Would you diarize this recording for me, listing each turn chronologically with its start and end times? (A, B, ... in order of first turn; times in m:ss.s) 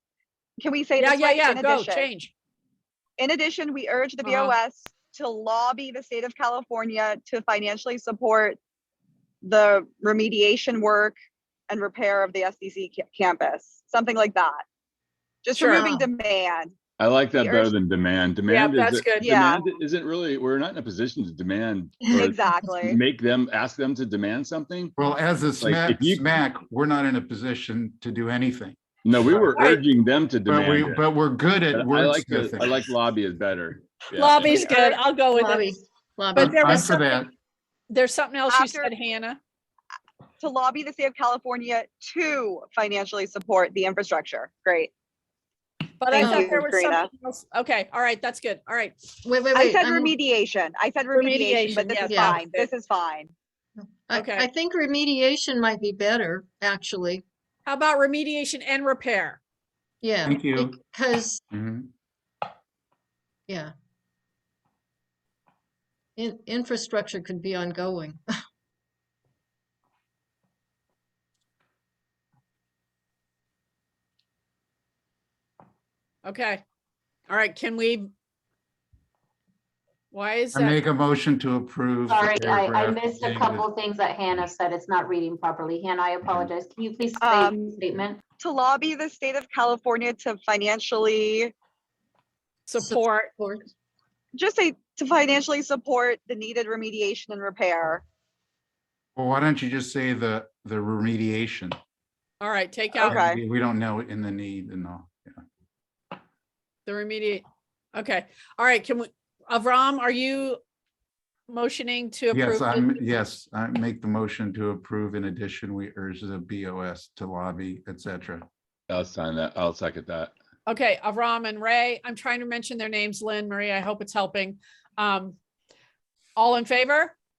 0:00.6-0:02.1 A
0:01.0-0:02.3 B
0:03.2-0:08.6 A
0:04.2-0:04.6 B
0:09.4-0:11.2 A
0:11.7-0:14.6 A
0:15.4-0:16.7 A
0:15.6-0:15.9 B
0:15.7-0:16.1 C
0:17.0-0:24.9 D
0:17.4-0:17.7 A
0:18.5-0:19.4 B
0:19.2-0:19.6 A
0:22.0-0:22.9 C
0:22.1-0:23.0 A
0:25.0-0:28.8 E
0:25.6-0:26.3 D
0:29.0-0:31.0 D
0:29.5-0:29.8 B
0:30.4-0:32.8 E
0:31.7-0:34.9 D
0:34.1-0:35.7 B
0:35.3-0:37.1 C
0:36.3-0:37.0 B
0:36.4-0:37.3 E
0:37.9-0:39.4 B
0:38.5-0:38.9 A
0:40.4-0:44.9 A
0:46.0-0:49.0 B
0:46.1-0:47.1 A
0:46.2-0:46.6 C
0:49.2-0:50.1 C
0:49.5-0:53.3 A
0:51.1-0:52.7 B
0:52.0-0:52.4 C
0:53.8-0:57.2 C
0:54.1-0:54.5 B
0:57.6-0:59.4 B
1:00.0-1:01.4 C
1:00.2-1:00.7 E
1:01.5-1:01.9 E
1:03.5-1:03.7 C
1:06.2-1:08.2 C
1:16.2-1:16.6 B
1:17.3-1:18.1 B
1:20.1-1:20.8 B
1:20.5-1:23.7 E
1:22.1-1:28.2 F
1:26.2-1:26.5 E
1:27.2-1:27.8 A
1:28.4-1:31.5 A
1:32.7-1:33.3 B
1:32.8-1:33.7 C
1:34.3-1:38.0 A
1:39.2-1:41.8 E
1:42.4-1:43.2 B
1:43.0-1:43.4 A
1:43.0-1:45.4 E
1:46.8-1:50.6 B
1:51.5-1:53.2 B
1:52.3-1:58.4 E
1:58.9-2:00.3 D
2:00.7-2:05.4 B
2:06.4-2:07.1 B